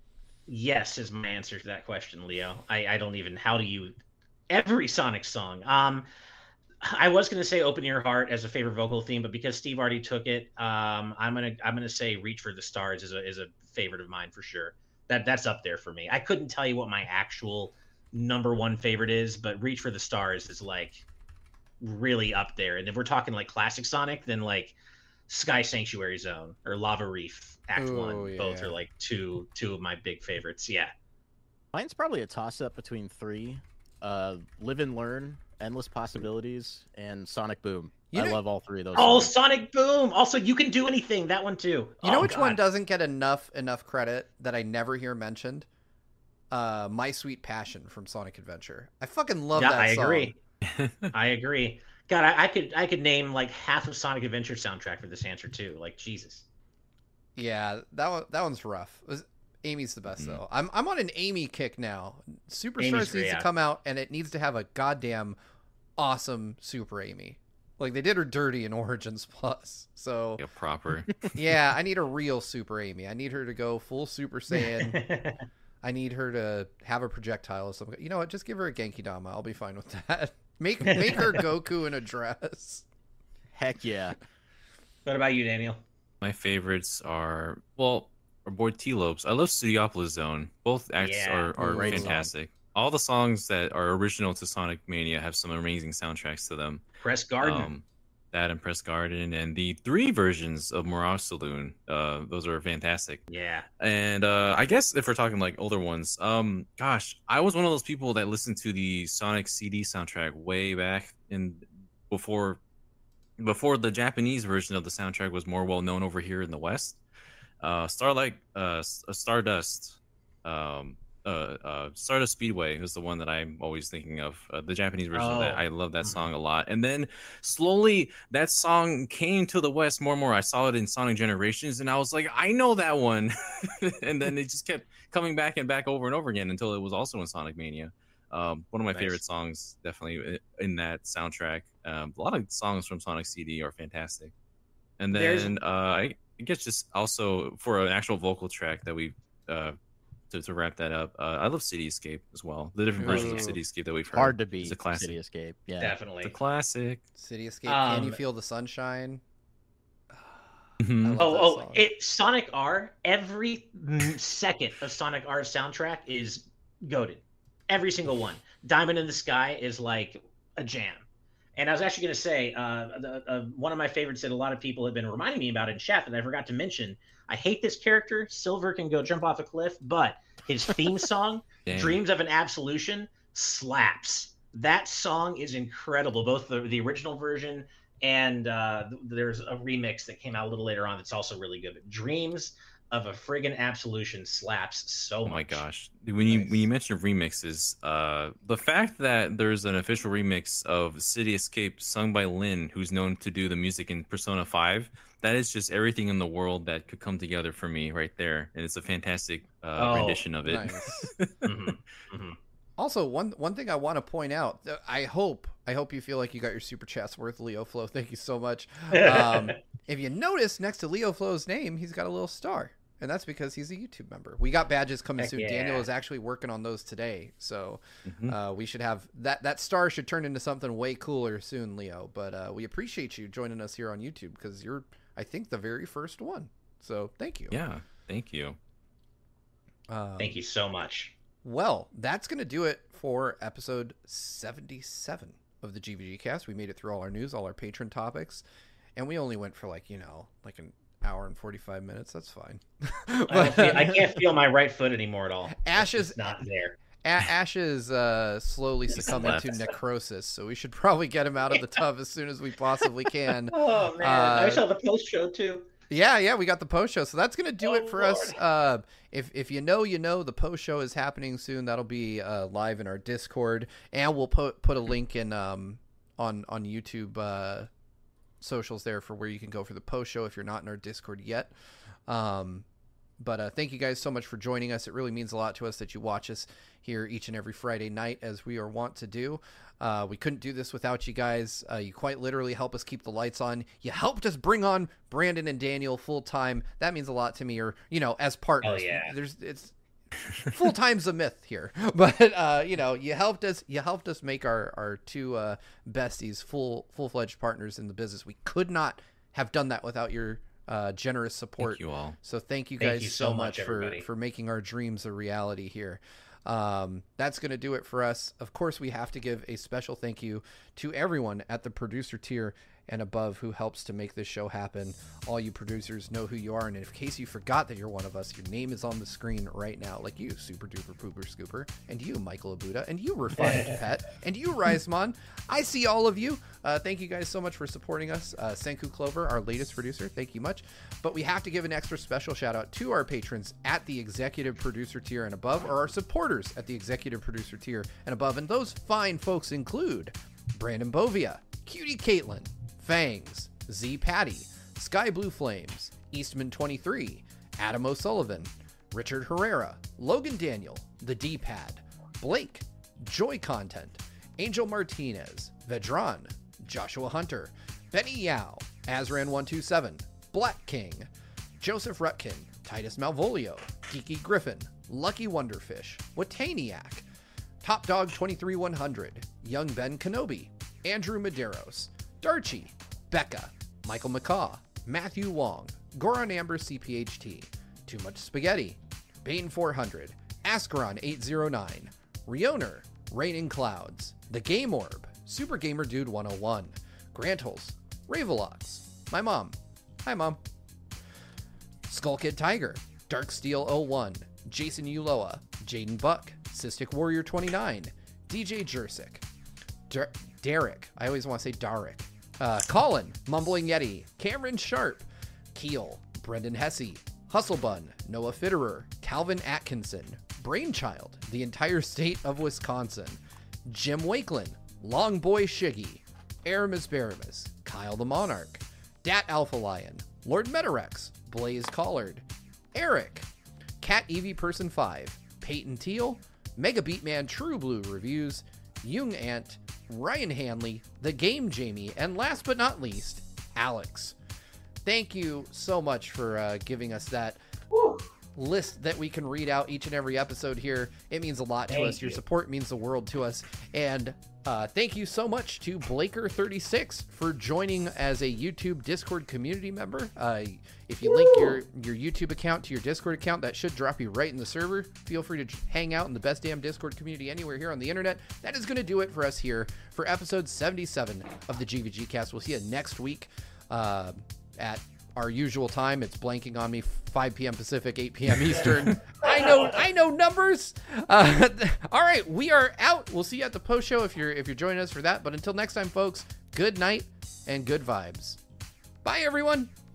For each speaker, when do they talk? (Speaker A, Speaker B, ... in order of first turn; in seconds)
Speaker A: 0.5-4.0, 4.5-6.1, 6.8-21.0, 21.8-24.8, 25.3-30.9, 38.9-42.6, 49.5-50.4, 51.1-56.4, 62.8-63.5, 74.5-75.4, 80.8-81.4, 85.0-85.8, 91.0-91.5, 97.0-97.7, 103.3-103.7, 125.1-126.2, 145.1-145.6, 155.8-156.3, 157.7-158.2, 161.2-171.0, 171.6-195.6, 209.8-210.3, 211.4-212.4, 218.9-219.6, 225.2-225.8, 240.2-241.1, 253.3-256.8, 258.9-259.5, 263.5-265.7, 267.6-268.4, 298.6-299.1, 312.8-314.0, 333.4-333.7, 447.7-448.0, 451.7-452.2, 461.1-461.6, 479.2-479.7
Speaker B: 27.8-28.8, 38.1-38.4, 42.0-45.7, 46.5-50.3, 57.4-65.3, 66.0-70.4, 71.3-75.0, 75.8-82.8, 91.6-92.1, 153.0-153.6, 157.2-159.2, 160.1-161.8, 196.3-196.7, 210.4-211.1, 212.8-237.6, 239.9-240.4, 241.4-248.4, 248.9-254.1, 255.5-256.3, 257.0-264.6, 265.9-277.7, 278.4-281.5, 282.1-282.6, 283.2-299.7, 300.4-377.1, 377.6-400.4, 401.9-409.2, 409.9-433.3, 433.8-444.1, 444.8-447.4, 448.3-488.4, 489.0-489.7
Speaker C: 31.7-39.3, 83.5-84.2, 91.6-92.3, 138.9-139.2, 153.1-153.5, 154.1-155.9
Speaker D: 50.6-51.1, 60.1-60.4, 70.4-71.3, 86.2-96.8, 97.4-103.2, 103.8-112.6, 113.4-117.0, 117.6-144.3, 145.0-149.8, 150.3-155.2, 156.2-157.0, 160.8-161.2, 181.7-182.0, 195.2-211.5, 228.1-228.3, 237.5-238.6, 258.9-259.6, 311.6-312.2